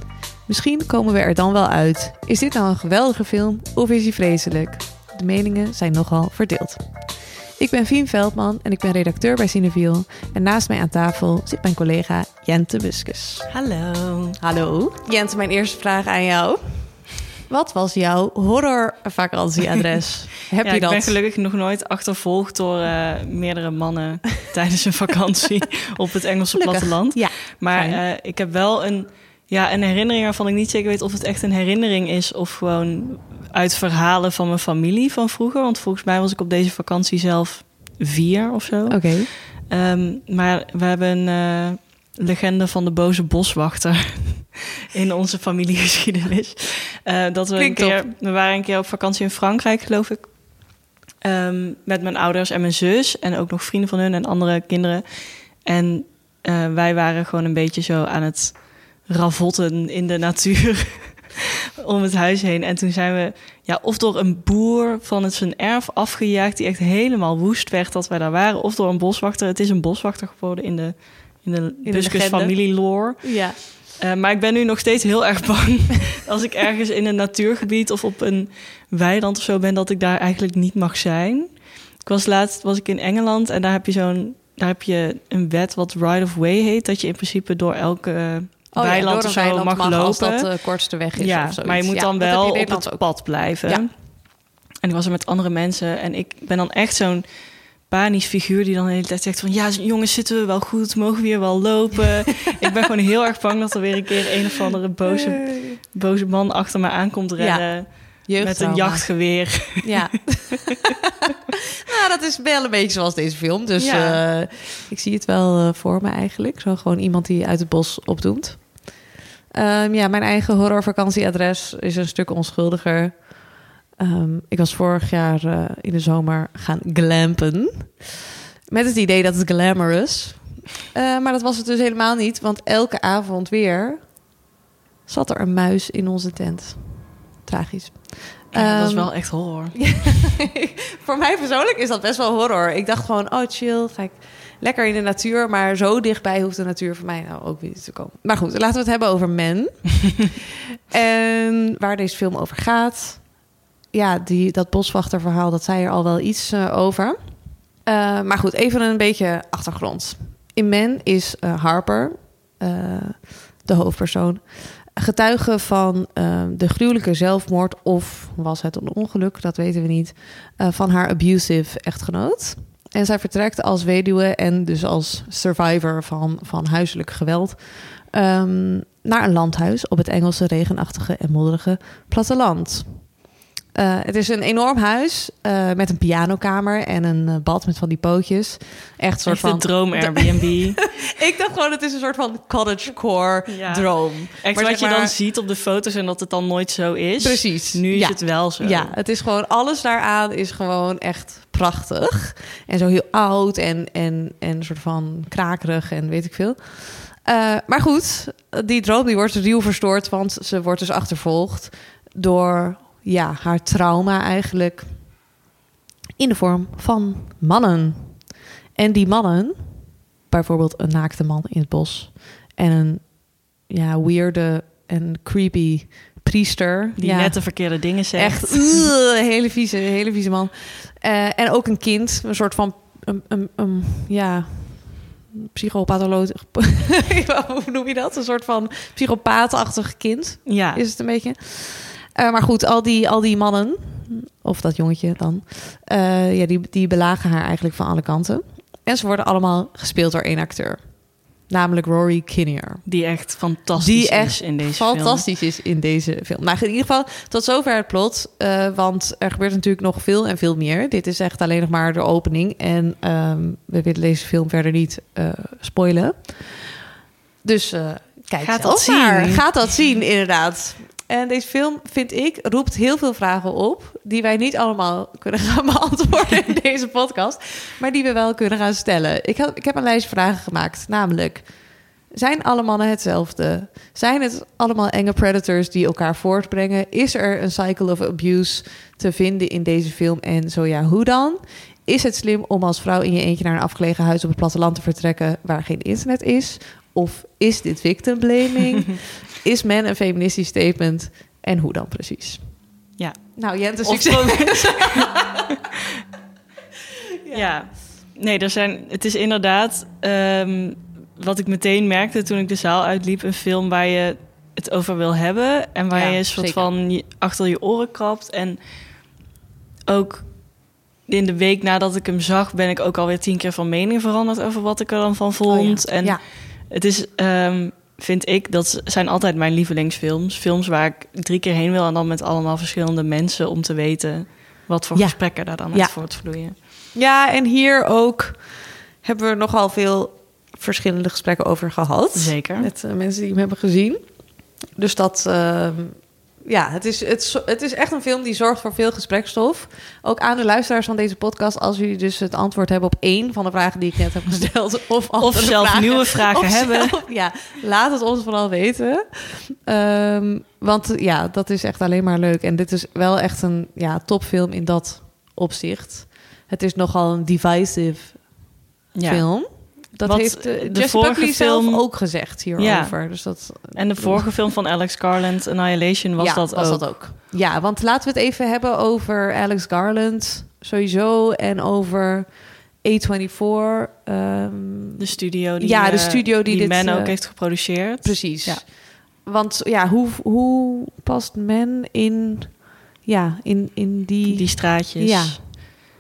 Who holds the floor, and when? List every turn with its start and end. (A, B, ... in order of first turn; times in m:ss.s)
0:00.5-0:13.5 A
0:13.5-0:14.4 B
0:14.4-0:21.2 A
0:20.5-1:50.0 B
0:26.5-0:28.0 A
0:38.9-0:39.3 A
0:47.6-0:48.0 A
1:11.8-1:13.6 A
1:28.7-1:33.9 A
1:45.1-1:45.8 A
1:47.4-1:50.9 A
1:51.9-2:08.1 A
1:53.8-1:54.2 B
2:08.7-2:14.2 A
2:15.1-2:30.4 A
2:18.5-2:19.8 B
2:30.9-3:03.2 A
3:03.7-3:15.1 A
3:09.3-3:10.9 B
3:13.5-3:19.0 B
3:17.2-3:35.2 A
3:36.2-4:12.8 A
3:47.0-3:48.9 B
4:00.5-4:00.8 B
4:12.8-4:15.2 B
4:13.8-4:26.7 A
4:27.4-5:02.7 A
4:28.4-4:29.4 B
5:03.0-5:05.0 B
5:03.4-5:05.2 A
5:07.3-5:19.2 B
5:15.9-5:16.7 A
5:19.9-5:36.6 B
5:25.5-5:26.2 A
5:35.0-6:14.4 A
5:42.1-5:42.7 B
5:55.2-5:57.0 B
6:08.9-6:17.0 B
6:16.2-6:25.0 A
6:25.0-6:28.6 B
6:25.6-6:35.4 A
6:34.3-6:35.6 B